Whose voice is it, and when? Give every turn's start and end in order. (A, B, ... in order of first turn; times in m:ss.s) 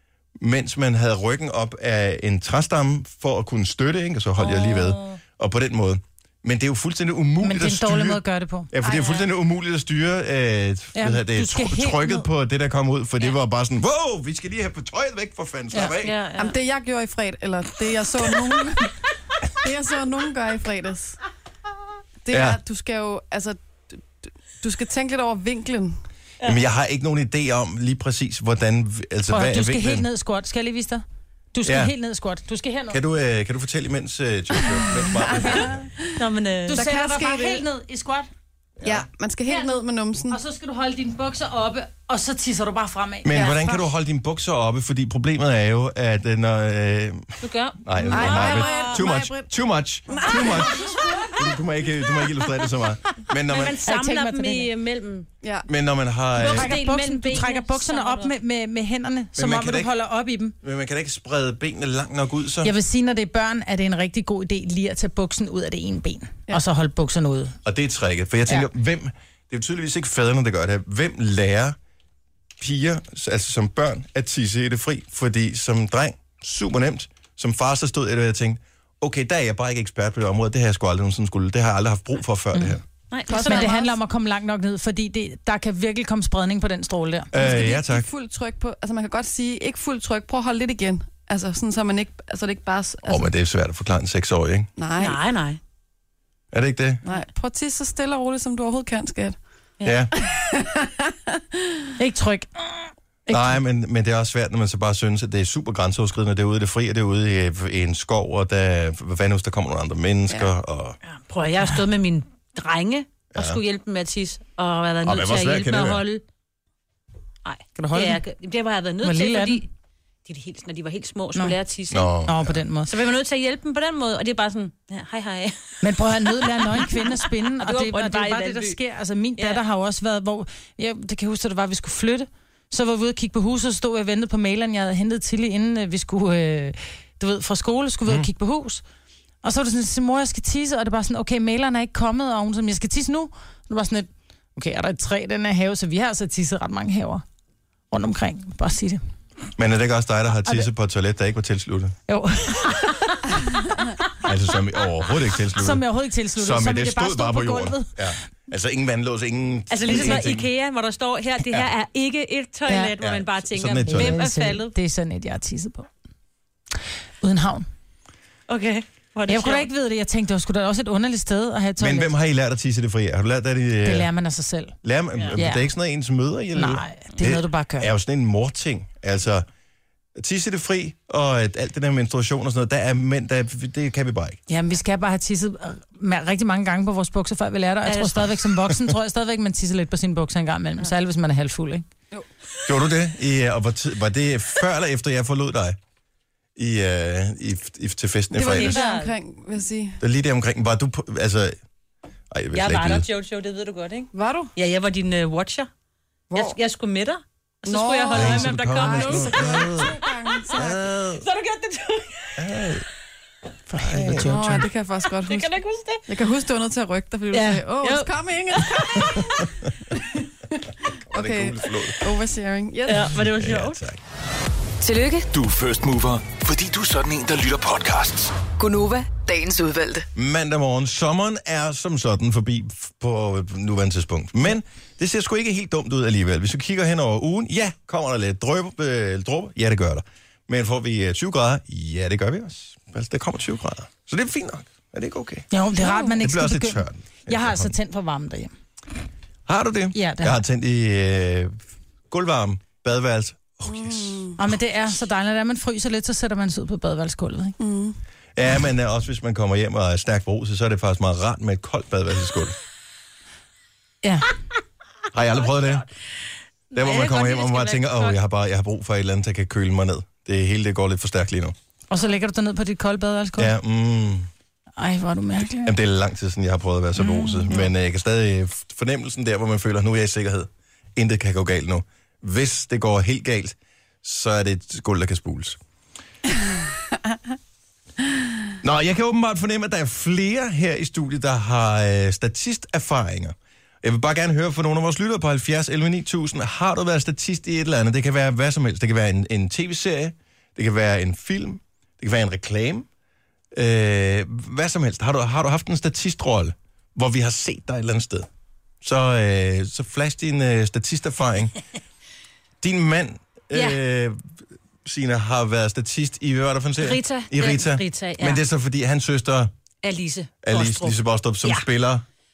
0:00.4-0:16.2 A
0:04.4-0:05.2 B
0:07.4-0:08.7 C
0:08.8-0:09.1 D
0:08.8-0:09.2 B
0:11.0-0:12.2 C
0:15.7-0:16.6 B
0:16.4-0:18.9 D
0:19.6-0:21.2 D
0:22.2-0:24.0 D
0:22.3-0:22.6 A
0:24.6-0:26.0 D
0:26.4-0:30.1 A
0:29.3-0:33.0 C
0:31.6-0:31.9 A
0:32.9-0:35.9 A
0:35.4-0:35.7 C
0:35.4-0:35.7 D
0:36.2-0:36.8 B
0:36.7-0:38.3 C
0:36.7-0:37.6 D
0:38.8-0:39.0 A
0:38.8-0:40.4 D
0:40.3-0:43.8 C
0:43.2-0:47.3 A
0:43.3-0:43.6 D
0:47.4-0:49.0 B
0:47.8-0:50.8 A
0:48.1-0:49.5 D
0:50.1-0:51.4 D
0:50.3-0:50.6 B
0:51.4-0:53.8 A
0:53.4-0:55.3 B
0:53.8-0:54.7 C
0:55.4-0:55.7 D
0:55.7-0:56.7 A
0:56.4-0:58.3 B
0:56.4-1:00.5 C
0:59.3-0:59.9 A
1:00.6-1:02.7 A
1:02.6-1:07.6 C
1:07.6-1:11.8 A
1:12.6-1:22.8 A
1:23.1-1:23.8 B
1:23.3-1:23.9 D
1:23.4-1:27.4 C
1:27.3-1:28.1 A
1:27.3-1:33.3 D
1:33.0-1:34.7 A
1:34.8-1:35.2 D
1:35.0-1:35.6 B
1:36.5-1:37.0 A
1:37.1-1:39.4 D
1:39.8-1:40.1 A
1:40.1-1:41.8 D
1:42.0-1:43.6 C
1:43.3-1:51.0 A
1:51.0-1:56.2 B
1:53.3-1:53.6 A
1:55.0-1:56.0 A
1:57.4-1:59.7 B
1:57.8-1:58.2 C
1:59.0-1:59.6 C
2:00.2-2:02.1 B
2:01.9-2:02.6 A
2:02.3-2:02.9 C
2:02.9-2:05.9 B
2:05.8-2:18.8 C
2:06.4-2:08.8 B
2:19.4-2:27.2 C
2:27.9-2:29.0 C
2:29.6-2:32.0 A
2:32.1-2:33.4 C
2:34.2-2:40.5 A
2:35.5-2:38.0 C
2:39.7-2:44.7 B
2:43.0-2:44.2 A
2:43.9-2:45.9 C
2:47.2-2:47.7 C
2:48.5-2:49.7 B
2:49.3-2:52.1 C
2:51.8-2:54.1 A
2:53.8-2:54.8 C
2:54.8-2:59.5 A
2:55.3-2:55.7 C
2:56.5-2:57.9 C
3:00.2-3:04.4 A
3:04.5-3:11.8 C
3:07.8-3:08.5 B
3:12.6-3:15.8 A
3:16.6-3:18.8 A
3:18.3-3:20.0 D
3:18.5-3:19.1 B
3:20.0-3:21.6 A
3:22.3-3:23.1 A
3:22.5-3:25.7 B
3:24.1-3:24.5 D
3:26.3-3:32.4 B
3:27.6-3:30.8 D
3:28.1-3:29.9 A
3:30.5-3:31.2 A
3:32.4-3:32.8 A
3:33.7-3:34.7 C
3:33.7-3:34.4 A
3:34.0-3:35.5 D
3:35.2-3:36.0 B
3:36.1-3:39.2 D
3:37.3-3:39.4 B
3:41.1-3:42.1 A
3:41.1-3:43.2 D
3:42.8-3:43.8 B
3:43.1-3:44.0 A
3:44.8-3:45.3 E
3:45.3-3:48.4 F
3:48.6-3:50.1 E
3:50.1-4:07.7 A
4:05.5-4:08.5 C
4:05.8-4:06.1 D
4:09.5-4:11.6 A
4:09.9-4:10.4 C
4:12.1-4:14.3 A
4:13.7-4:14.4 D
4:14.4-4:17.5 C
4:17.6-4:18.0 D
4:18.4-4:22.6 A
4:24.0-4:24.3 C
4:25.1-4:25.8 A
4:26.7-4:28.2 B
4:26.7-4:31.5 A
4:31.9-4:33.5 C
4:33.4-4:34.3 A
4:34.8-4:35.7 C
4:35.6-4:45.6 A
4:37.0-4:37.6 C
4:48.6-5:02.9 A
5:03.5-5:08.3 A
5:08.8-5:11.5 A
5:12.6-5:14.2 A
5:13.5-5:13.8 B
5:14.8-5:19.5 A
5:16.8-5:18.4 B
5:19.8-5:21.7 B
5:20.4-5:22.0 A